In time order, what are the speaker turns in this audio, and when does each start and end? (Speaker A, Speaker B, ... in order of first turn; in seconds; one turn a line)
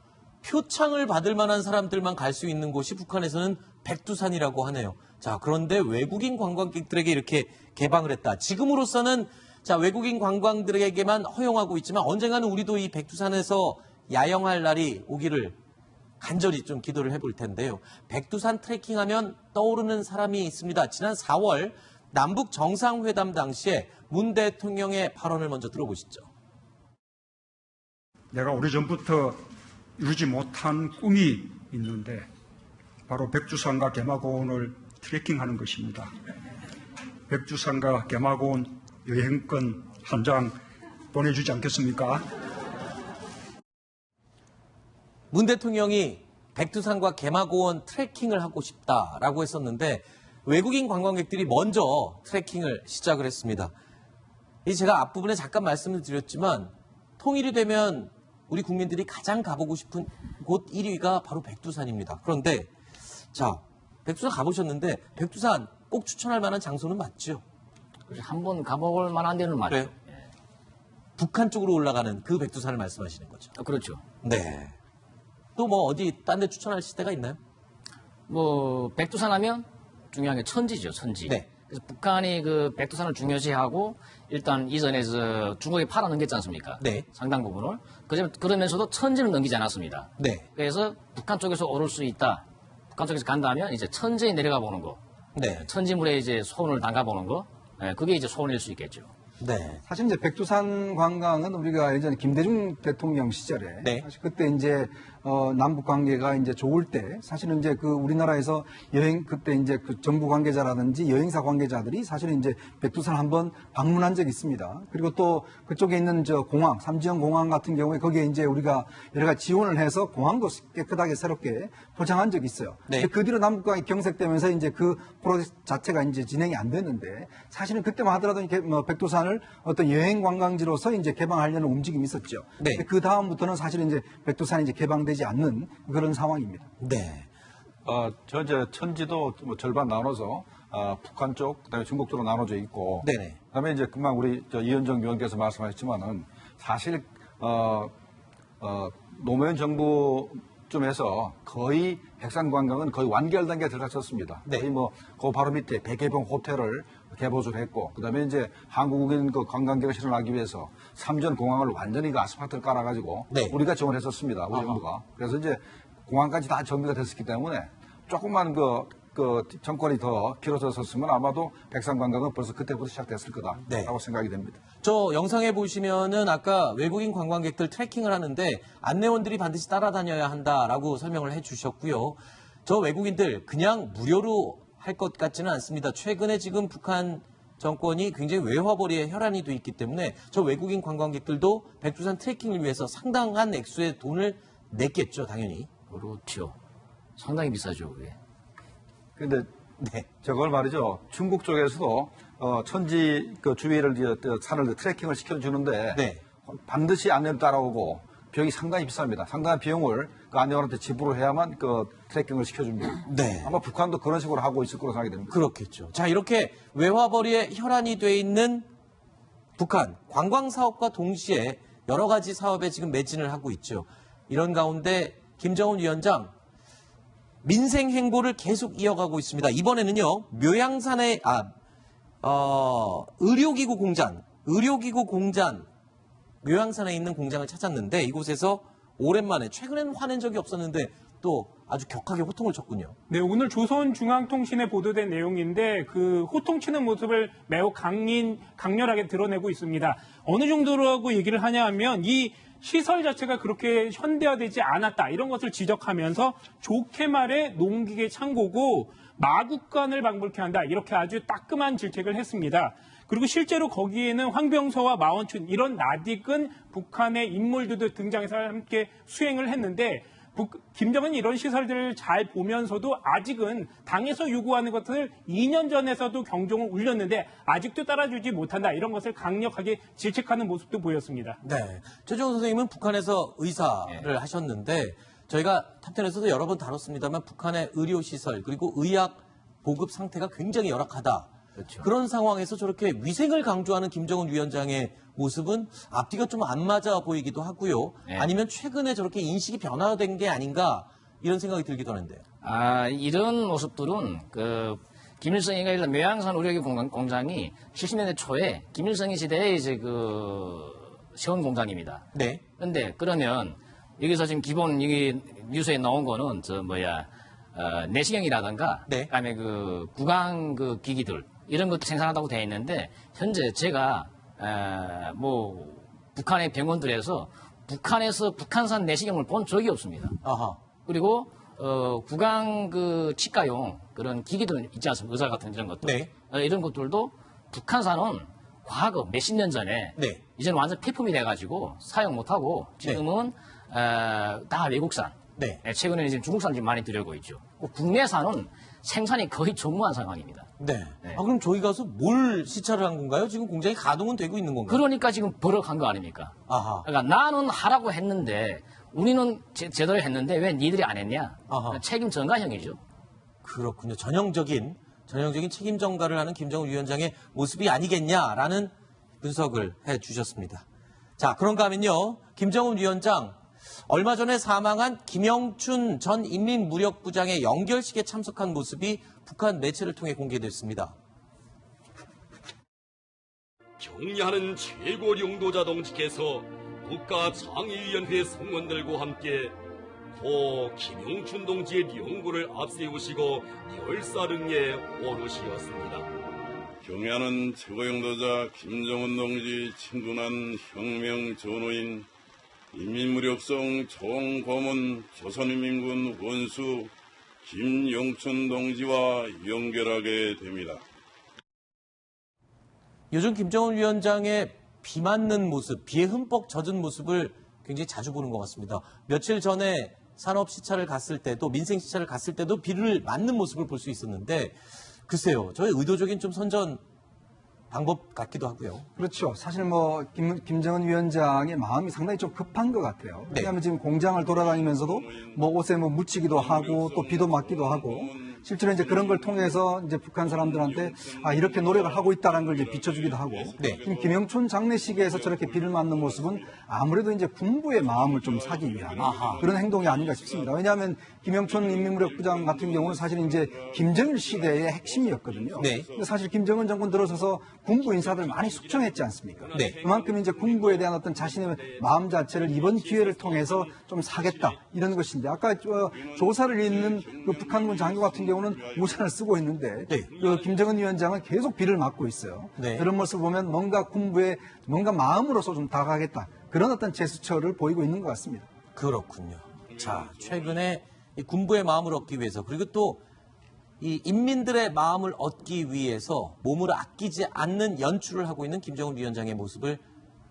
Speaker A: 0.4-15.6
Speaker A: 16.2-26.3
Speaker B: 28.3-29.4
Speaker B: 30.0-32.2
Speaker B: 33.1-36.1
Speaker B: 37.3-40.5
Speaker B: 41.1-42.2
Speaker A: 45.3-53.7
Speaker A: 54.6-67.4
Speaker C: 68.1-70.3
Speaker A: 71.2-73.5
Speaker C: 73.5-74.0
Speaker A: 74.2-74.7
Speaker A: 75.6-77.4
Speaker C: 78.3-95.0
Speaker A: 86.8-87.0
Speaker A: 90.2-90.4
Speaker A: 95.3-95.7
Speaker C: 95.5-99.1
Speaker A: 99.4-99.8
Speaker D: 99.8-136.7
Speaker A: 132.6-132.8
Speaker A: 136.8-137.2
Speaker D: 137.8-147.9
Speaker A: 143.0-143.4
Speaker D: 148.6-174.6
Speaker A: 163.3-163.5
Speaker A: 164.5-164.8
Speaker A: 173.7-173.9
Speaker A: 174.8-195.7
Speaker C: 195.9-196.6
Speaker C: 197.2-198.2
Speaker D: 199.2-199.5
Speaker A: 199.8-200.1
Speaker D: 200.2-215.3
Speaker A: 205.9-206.2
Speaker A: 213.1-213.6
Speaker A: 215.3-218.7
Speaker A: 219.6-226.3
Speaker A: 227.4-231.5
Speaker A: 232.2-235.7
Speaker A: 236.4-242.9
Speaker E: 243.1-281.4
Speaker A: 281.4-291.3
Speaker C: 283.9-284.1
Speaker C: 291.6-291.9
Speaker A: 291.8-302.2
Speaker C: 302.4-312.1
Speaker A: 312.1-312.4
Speaker C: 312.6-330.2
Speaker A: 330.2-330.6
Speaker C: 330.9-350.5
Speaker A: 335.8-336.1
Speaker A: 350.6-354.8
Speaker C: 354.7-362.8
Speaker A: 356.5-356.9
Speaker A: 361.5-361.8
Speaker A: 363.4-370.6
Speaker A: 371.2-380.9
Speaker F: 383.8-389.6
Speaker F: 390.1-396.1
Speaker G: 396.8-402.1
Speaker G: 402.7-406.9
Speaker G: 407.4-410.8
Speaker A: 413.1-426.8
Speaker A: 427.7-428.9
Speaker D: 428.9-478.5
Speaker G: 434.1-435.4
Speaker G: 436.2-439.7
Speaker G: 440.2-446.6
Speaker G: 447.7-457.4
Speaker A: 449.0-449.5
Speaker A: 455.6-455.9
Speaker F: 457.8-465.0
Speaker A: 459.5-459.8
Speaker G: 465.7-469.2
Speaker G: 470.1-470.9
Speaker A: 472.6-472.9
Speaker A: 478.7-483.0
Speaker G: 479.7-480.5
Speaker A: 483.8-489.8